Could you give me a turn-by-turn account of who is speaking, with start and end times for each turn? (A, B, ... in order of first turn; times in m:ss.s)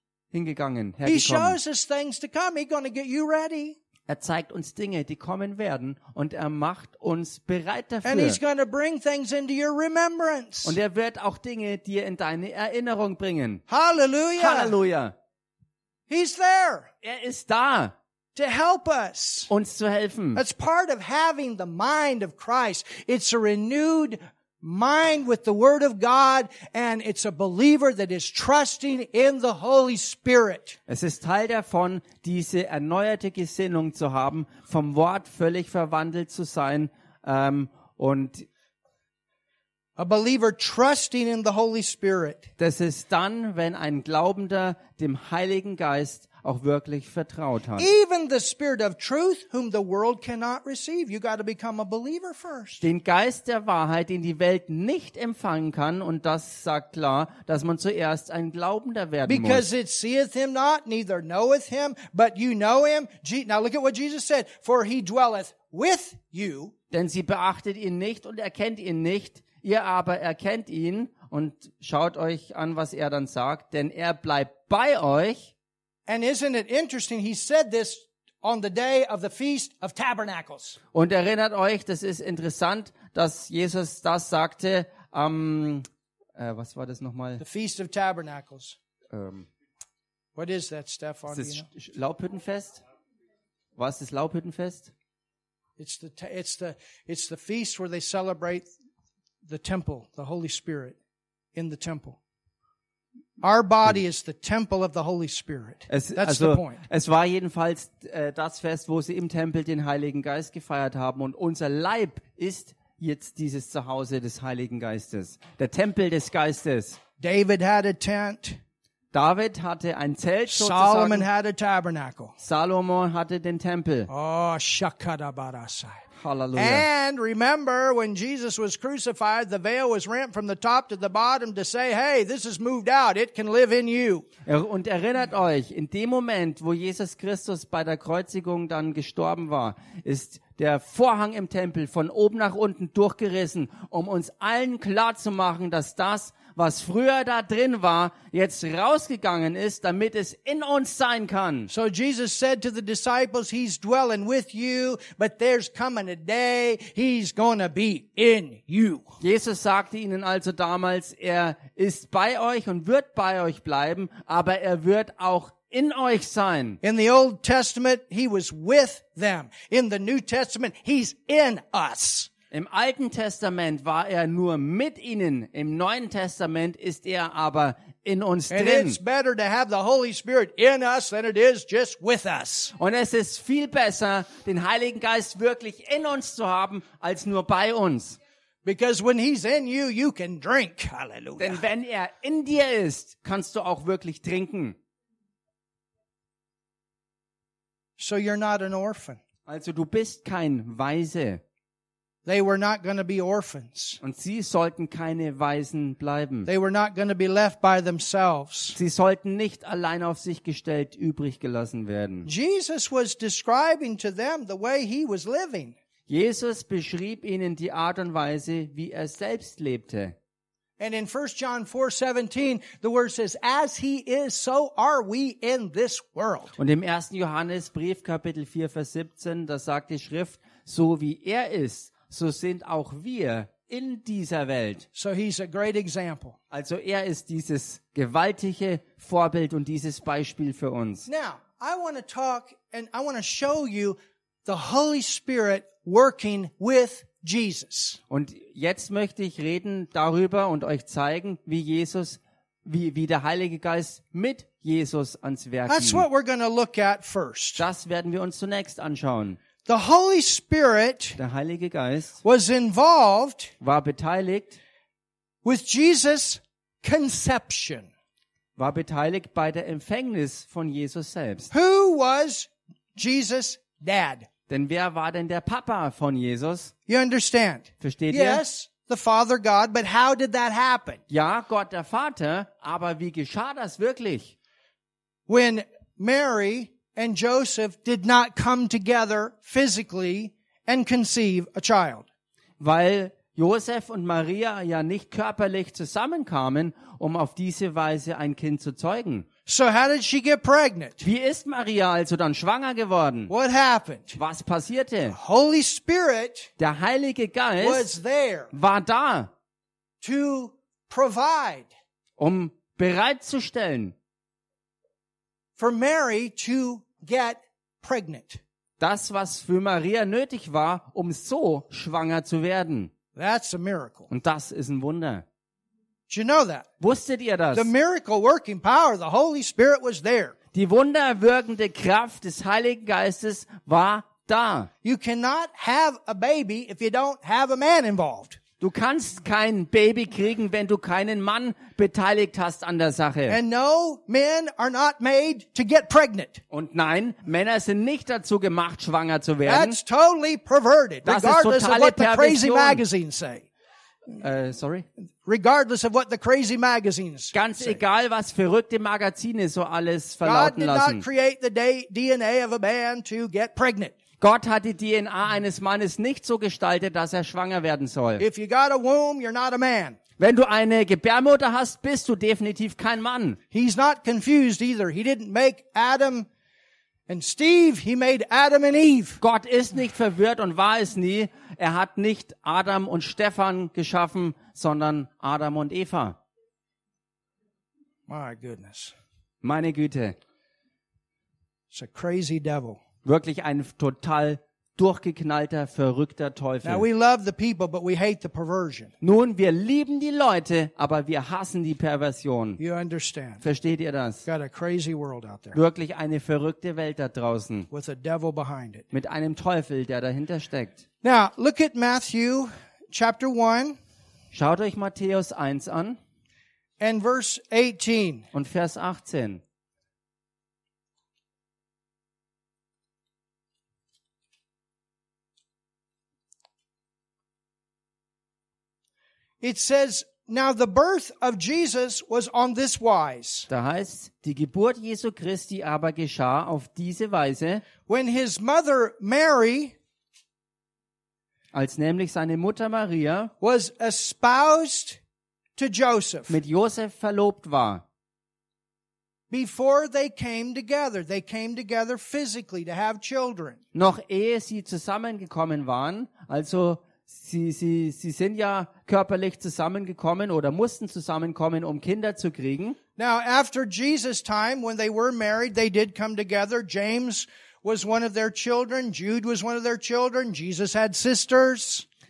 0:00.3-0:01.6 A
0:01.0-0:03.8 B
0:04.1-0:08.4 A
0:08.0-0:10.8 B
0:10.6-0:13.6 A
0:13.7-0:14.7 B
0:14.4-0:15.1 A
0:16.1-0:16.9 B
0:17.0-0:17.9 A
0:18.3-0:19.5 B
0:19.5-0:20.4 A
0:20.3-0:30.8 B
0:30.9-0:38.4 A
0:40.0-0:42.5 B
0:42.6-0:47.9 A
0:47.8-0:52.8 B
0:52.8-0:59.7 A
0:59.2-1:06.7 B
1:06.9-1:15.5 A
1:16.1-1:20.8 B
1:20.9-1:25.8 A
1:26.4-1:27.4 A
1:27.4-1:28.8 B
1:29.1-1:29.5 A
1:30.4-1:31.7 B
1:31.3-1:32.8 A
1:33.8-1:34.9 A
1:35.8-1:38.6 B
1:39.4-1:41.0 B
1:41.5-1:42.2 B
1:43.4-1:46.8 B
1:45.9-1:57.0 A
1:57.2-1:58.6 B
1:59.1-2:01.3 A
2:00.5-2:02.3 B
2:02.4-2:04.1 A
2:04.1-2:06.0 B
2:06.2-2:06.8 A
2:06.6-2:14.2 B
2:14.4-2:31.7 A
2:31.7-2:39.1 B
2:39.2-2:46.8 A
2:46.8-2:52.3 B
2:52.5-2:59.0 A
2:58.5-3:02.7 B
3:02.8-3:08.2 A
3:08.6-3:11.6 B
3:11.4-3:14.8 A
3:18.0-3:19.2 B
3:19.4-3:21.4 A
3:22.2-3:24.0 B
3:24.0-3:26.5 A
3:26.4-3:28.8 B
3:28.8-3:32.3 A
3:32.2-3:35.8 B
3:36.1-3:40.1 A
3:40.8-3:46.6 B
3:46.6-3:54.8 A
3:55.0-3:56.4 B
3:56.5-4:01.1 A
4:01.1-4:08.0 B
4:08.1-4:16.1 A
4:15.7-4:17.6 B
4:17.6-4:19.4 A
4:19.6-4:21.2 B
4:21.2-4:22.2 A
4:22.2-4:23.5 B
4:23.6-4:24.6 A
4:25.4-4:27.9 B
4:28.6-4:31.5 A
4:31.5-4:34.3 B
4:34.5-4:36.7 A
4:36.9-4:41.0 B
4:37.8-4:38.4 A
4:41.1-4:44.3 A
4:45.3-4:52.0 B
4:52.6-4:59.3 A
4:59.4-5:01.0 B
5:01.0-5:03.3 A
5:03.3-5:04.2 B
5:04.1-5:05.2 A
5:05.1-5:06.5 B
5:06.6-5:07.9 A
5:07.6-5:08.5 B
5:08.5-5:09.3 A
5:10.0-5:11.7 B
5:12.2-5:13.9 A
5:15.6-5:18.4 B
5:18.8-5:22.9 A
5:23.2-5:24.1 B
5:24.1-5:25.2 A
5:26.1-5:26.6 B
5:26.8-5:27.7 A
5:27.5-5:30.3 B
5:30.5-5:34.7 A
5:34.8-5:38.4 B
5:38.6-5:43.4 A
5:43.3-5:46.4 B
5:46.5-5:49.8 A
5:49.4-5:53.4 B
5:51.0-5:52.8 A
5:54.2-5:54.9 A
5:55.2-5:57.8 B
5:57.3-6:01.0 A
6:00.2-6:03.9 B
6:04.2-6:08.2 A
6:08.2-6:10.0 B
6:10.2-6:13.4 A
6:13.5-6:16.3 B
6:17.1-6:19.2 B
6:19.2-6:26.2 A
6:28.1-6:28.9 B
6:29.4-6:30.2 A
6:31.7-6:32.8 B
6:33.0-6:36.8 A
6:36.6-6:38.9 B
6:39.0-6:42.6 A
6:42.6-6:43.4 B
6:43.4-6:44.2 A
6:44.2-6:45.6 B
6:45.5-6:47.7 A
6:47.7-6:48.8 B
6:48.9-6:50.8 A
6:51.0-6:53.8 B
6:54.3-6:56.0 A
6:56.8-6:58.2 B
6:58.3-6:59.4 A
7:09.4-7:13.5 B
7:13.5-7:17.6 A
7:17.9-7:19.7 B
7:21.5-7:23.3 A
7:23.4-7:25.0 B
7:25.6-7:26.4 B
7:26.3-7:27.8 A
7:29.3-7:33.6 B
7:33.7-7:42.8 A
7:43.0-7:51.8 B